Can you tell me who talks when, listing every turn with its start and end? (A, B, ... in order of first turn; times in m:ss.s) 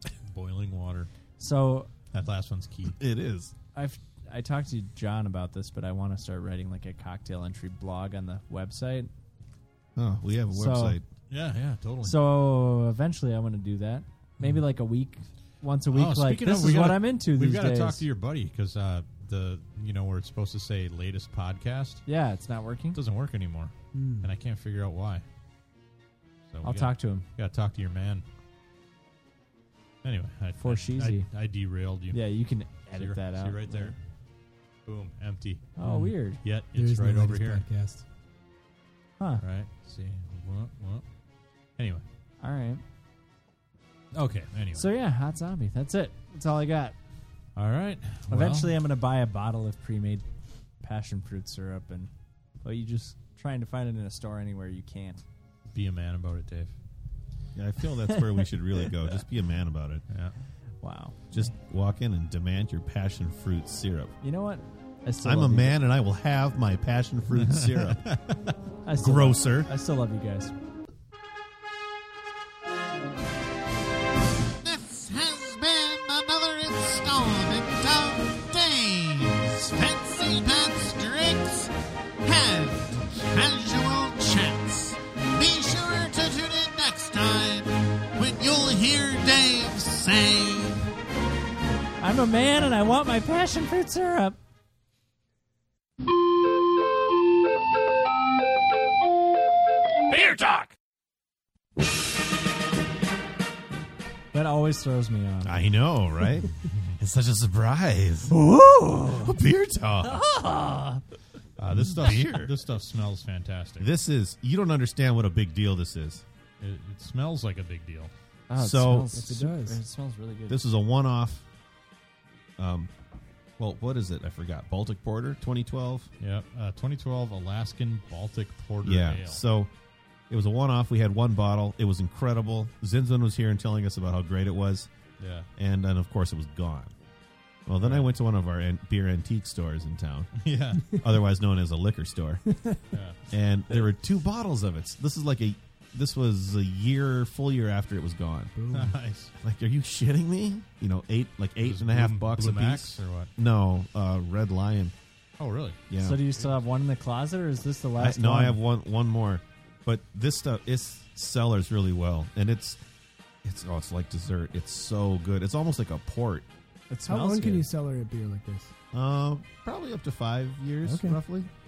0:00.3-0:01.1 A
0:01.4-0:01.9 B
0:02.1-0:03.0 A
0:02.9-0:03.5 C
0:03.8-0:09.1 B
0:10.0-0:11.0 C
0:10.5-0:11.0 B
0:11.3-0:12.2 A
0:12.0-0:18.0 B
0:15.9-0:22.0 A
0:22.1-0:23.0 B
0:22.9-0:25.2 A
0:23.9-0:24.3 D
0:26.5-0:28.2 A
0:26.6-0:27.2 B
0:30.0-0:32.2 A
0:30.6-0:31.3 B
0:32.1-0:34.0 B
0:32.9-0:34.0 A
0:34.9-0:35.7 A
0:35.8-0:36.4 B
0:35.8-0:36.2 D
0:36.4-0:37.6 A
0:36.7-0:38.0 D
0:39.4-0:41.0 A
0:41.8-0:42.0 A
0:42.4-0:42.8 B
0:44.1-0:44.9 A
0:44.8-0:47.0 B
0:47.6-0:48.8 A
0:48.3-0:50.2 B
0:50.8-0:52.1 B
0:52.6-0:55.2 B
0:55.7-0:56.8 A
0:57.6-1:00.1 C
0:58.1-0:58.9 B
1:00.1-1:00.4 A
1:00.8-1:01.2 B
1:01.3-1:04.1 C
1:04.2-1:05.8 B
1:05.2-1:08.2 C
1:07.5-1:08.4 A
1:08.8-1:10.5 B
1:09.0-1:09.7 C
1:14.6-1:30.9 E
1:32.0-1:34.4 B
1:40.1-1:40.5 A
1:44.3-1:45.6 B
1:45.4-1:48.4 C
1:46.7-1:47.0 A
1:48.3-1:49.4 B
1:49.1-1:50.2 C
1:50.1-1:51.0 B
1:51.6-1:53.9 A
1:51.7-1:52.5 C
1:53.8-1:56.2 C
1:56.6-1:58.1 A
1:58.5-2:00.6 B
1:58.6-1:59.1 C
1:59.1-1:59.8 D
2:00.5-2:01.4 C
2:02.6-2:02.9 C
2:03.6-2:06.1 C
2:06.2-2:09.4 A
2:08.8-2:09.7 C
2:10.3-2:14.9 C
2:15.2-2:15.5 A
2:15.6-2:16.9 C
2:17.7-2:22.4 C
2:17.8-2:18.1 A
2:20.4-2:21.0 A
2:22.9-2:23.2 A
2:23.3-2:28.5 C
2:28.6-2:28.9 D
2:28.7-2:29.3 A
2:29.4-2:34.9 C
2:31.6-2:33.3 A
2:35.4-2:35.8 A
2:35.9-2:36.2 C
2:36.0-2:38.6 B
2:38.0-2:42.8 C
2:43.4-2:46.5 C
2:46.9-2:47.7 B
2:46.9-2:48.7 D
2:48.9-2:51.5 C
2:50.8-2:51.2 D